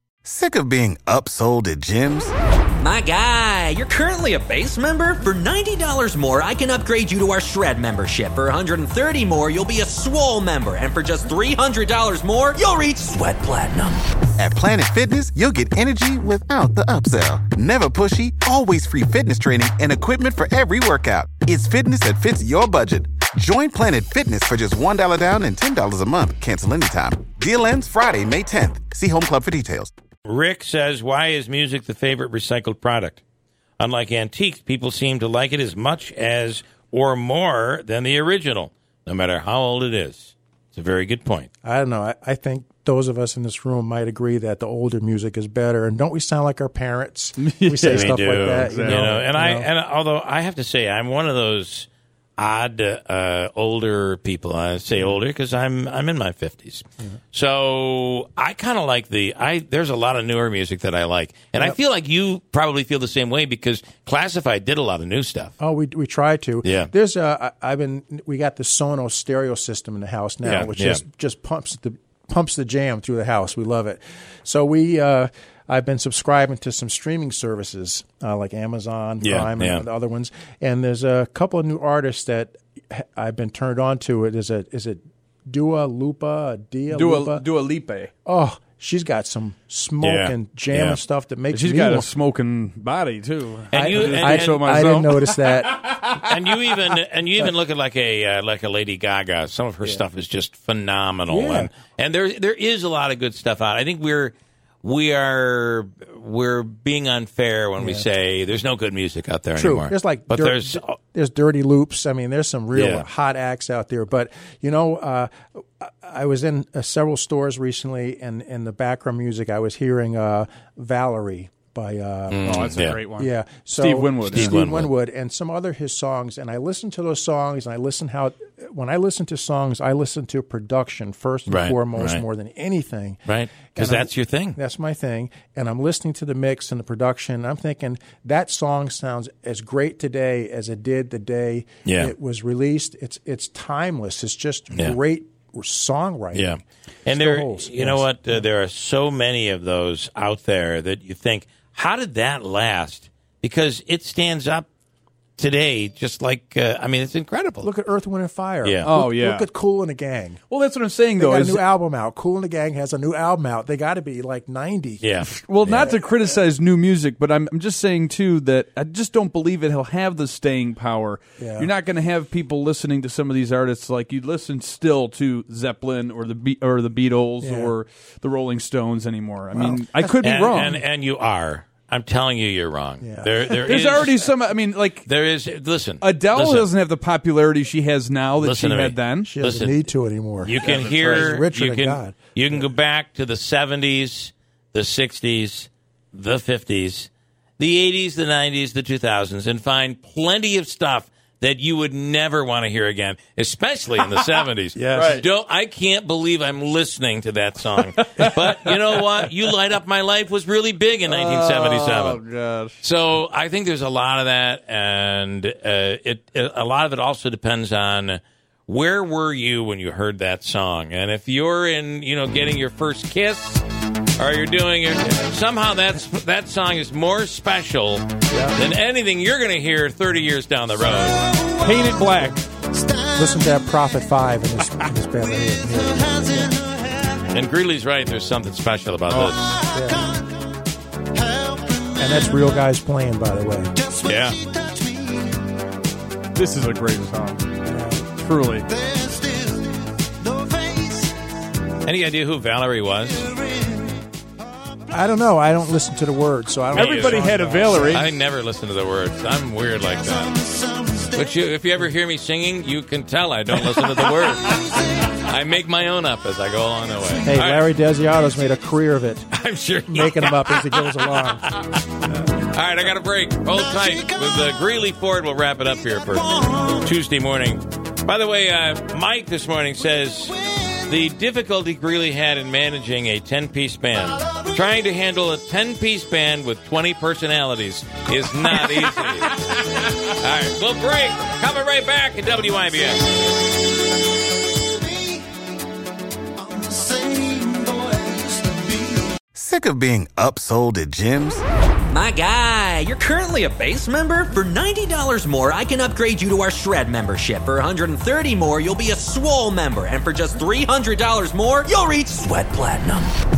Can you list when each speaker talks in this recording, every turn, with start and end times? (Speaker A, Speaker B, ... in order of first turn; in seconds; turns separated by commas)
Speaker A: 0.2-2.3, Speaker B: 2.8-14.0, Speaker A: 14.4-29.9, Speaker C: 30.2-33.2, Speaker C: 33.8-41.5, Speaker D: 41.6-49.7, Speaker E: 47.4-49.1, Speaker C: 47.9-65.5, Speaker D: 65.6-87.4, Speaker C: 66.6-66.9, Speaker C: 70.4-71.0, Speaker C: 79.2-79.8, Speaker E: 86.9-88.1, Speaker D: 88.2-92.1, Speaker C: 90.0-91.0, Speaker E: 91.5-96.9, Speaker C: 93.7-94.7, Speaker D: 94.0-95.8, Speaker C: 96.2-110.9, Speaker D: 101.3-101.7, Speaker D: 107.8-108.0, Speaker D: 109.5-133.2, Speaker C: 112.7-113.1, Speaker C: 122.3-123.0, Speaker E: 122.4-124.6, Speaker C: 124.3-124.9, Speaker C: 131.5-132.2, Speaker C: 133.2-134.6, Speaker D: 133.7-146.6, Speaker C: 141.8-142.1, Speaker C: 144.7-145.0, Speaker C: 146.3-154.7, Speaker D: 147.1-148.4, Speaker C: 155.4-157.7, Speaker D: 157.6-160.4, Speaker C: 158.6-158.9, Speaker E: 158.8-159.5, Speaker E: 160.5-161.7, Speaker D: 161.2-165.1, Speaker C: 165.0-165.9, Speaker E: 165.2-180.8, Speaker D: 171.4-171.7, Speaker D: 177.4-177.8, Speaker D: 179.5-180.8, Speaker C: 180.2-184.3, Speaker D: 183.0-183.4, Speaker E: 183.4-185.1, Speaker C: 185.0-186.7, Speaker E: 186.0-189.4, Speaker C: 188.4-189.9, Speaker D: 189.2-192.6, Speaker C: 190.4-212.2, Speaker E: 190.6-191.1, Speaker E: 204.8-205.2, Speaker D: 204.9-205.2, Speaker E: 207.8-209.0, Speaker E: 211.0-212.8, Speaker C: 212.8-223.6, Speaker C: 224.2-231.3, Speaker D: 228.3-228.7, Speaker E: 231.6-232.4, Speaker D: 233.1-236.6, Speaker C: 237.3-239.6, Speaker E: 239.1-239.4, Speaker D: 239.7-240.1, Speaker D: 242.0-243.8, Speaker C: 244.0-244.4, Speaker E: 246.3-248.7, Speaker D: 247.7-248.1, Speaker C: 251.8-253.4, Speaker D: 254.9-258.0, Speaker E: 256.7-258.1, Speaker C: 256.7-257.2, Speaker C: 257.9-260.5, Speaker C: 261.0-267.6, Speaker D: 267.2-269.3, Speaker C: 269.3-293.1, Speaker D: 269.9-271.5, Speaker A: 299.3-301.4, Speaker B: 301.9-313.1